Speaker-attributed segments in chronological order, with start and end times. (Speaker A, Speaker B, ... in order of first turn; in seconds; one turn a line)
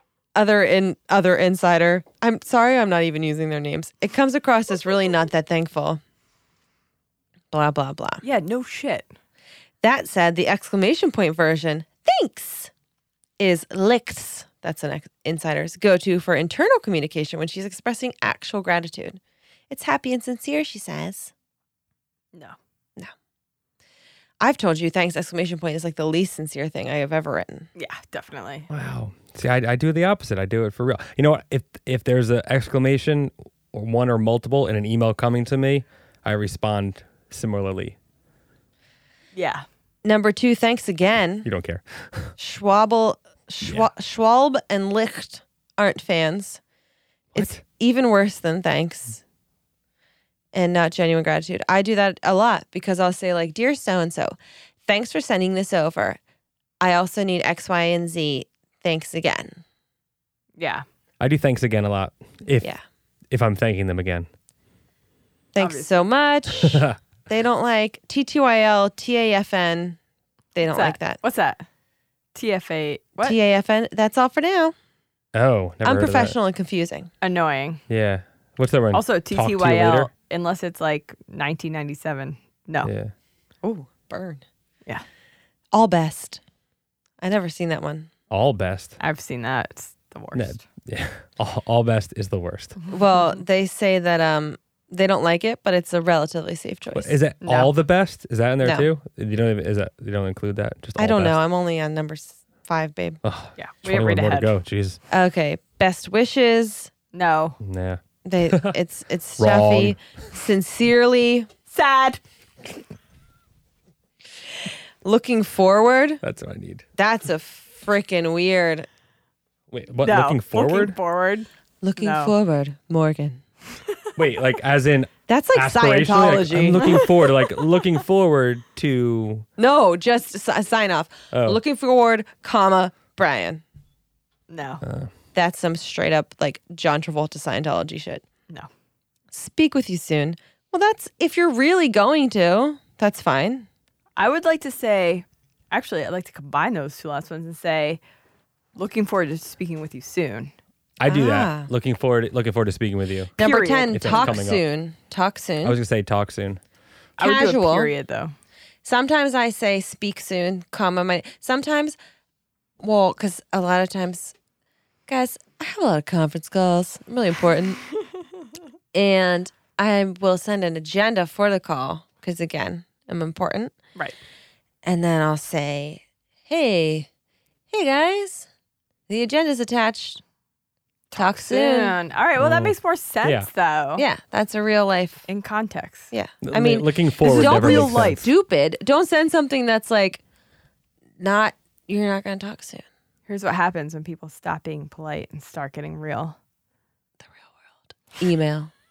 Speaker A: 0.3-6.0
Speaker A: 7.5-8.2
Speaker B: 8.2-9.1
Speaker A: 9.8-12.7
Speaker A: 13.4-21.3
Speaker A: 24.4-27.7
Speaker B: 27.8-28.7
Speaker C: 28.7-38.0
Speaker B: 39.3-39.6
Speaker A: 40.0-41.5
Speaker C: 41.4-42.3
Speaker A: 42.4-46.6
Speaker C: 43.6-43.9
Speaker C: 47.3-47.6
Speaker A: 47.3-49.2
Speaker A: 50.5-56.2
Speaker A: 56.8-59.6
Speaker B: 60.6-60.8
Speaker C: 61.2-62.7
Speaker C: 63.3-64.3
Speaker A: 65.5-70.0
Speaker B: 65.6-65.9
Speaker C: 66.6-67.0
Speaker A: 70.5-71.2
Speaker B: 70.7-71.6
Speaker B: 72.3-73.4
Speaker A: 73.2-74.7
Speaker C: 75.3-76.3
Speaker A: 75.8-77.1
Speaker B: 77.2-77.8
Speaker C: 77.9-80.1
Speaker B: 78.9-82.9
Speaker C: 82.8-83.1
Speaker A: 83.6-84.4
Speaker A: 85.7-86.4
Speaker A: 87.2-88.1
Speaker C: 88.3-89.0
Speaker B: 89.0-90.6
Speaker C: 90.3-92.8
Speaker A: 92.9-97.2
Speaker C: 96.9-101.4
Speaker B: 97.4-97.7
Speaker A: 98.6-98.9
Speaker A: 101.0-103.2
Speaker C: 103.2-105.0
Speaker B: 103.6-104.5
Speaker A: 105.1-106.9
Speaker B: 107.1-107.6
Speaker C: 107.6-108.7
Speaker A: 108.2-111.5
Speaker C: 109.4-110.0
Speaker B: 111.7-112.2
Speaker A: 115.0-116.2
Speaker C: 116.2-116.8
Speaker A: 117.0-118.9
Speaker C: 119.7-121.0
Speaker B: 120.0-122.3
Speaker A: 121.8-123.4
Speaker C: 124.2-129.4
Speaker A: 125.3-127.0
Speaker B: 126.8-127.6
Speaker A: 129.6-133.6
Speaker C: 131.3-131.6
Speaker B: 134.5-134.8
Speaker C: 134.8-135.1
Speaker A: 135.3-138.2
Speaker A: 139.3-143.7
Speaker B: 144.2-148.0
Speaker B: 148.8-150.5
Speaker C: 151.0-153.3
Speaker A: 151.1-151.7
Speaker B: 153.4-154.3
Speaker A: 153.4-155.8
Speaker C: 153.9-154.6
Speaker C: 155.6-156.6
Speaker B: 157.2-158.3
Speaker A: 157.2-157.9
Speaker A: 158.8-162.0
Speaker A: 162.8-164.3
Speaker A: 165.1-167.8
Speaker A: 168.9-173.7
Speaker A: 174.8-177.1
Speaker A: 177.7-178.5
Speaker A: 179.1-180.2
Speaker B: 181.1-184.0
Speaker A: 181.1-182.0
Speaker C: 182.4-183.5
Speaker A: 183.9-185.2
Speaker B: 185.3-186.1
Speaker A: 186.1-190.2
Speaker C: 186.4-188.3
Speaker B: 187.2-188.2
Speaker A: 191.2-192.8
Speaker B: 193.3-196.3
Speaker A: 197.2-198.7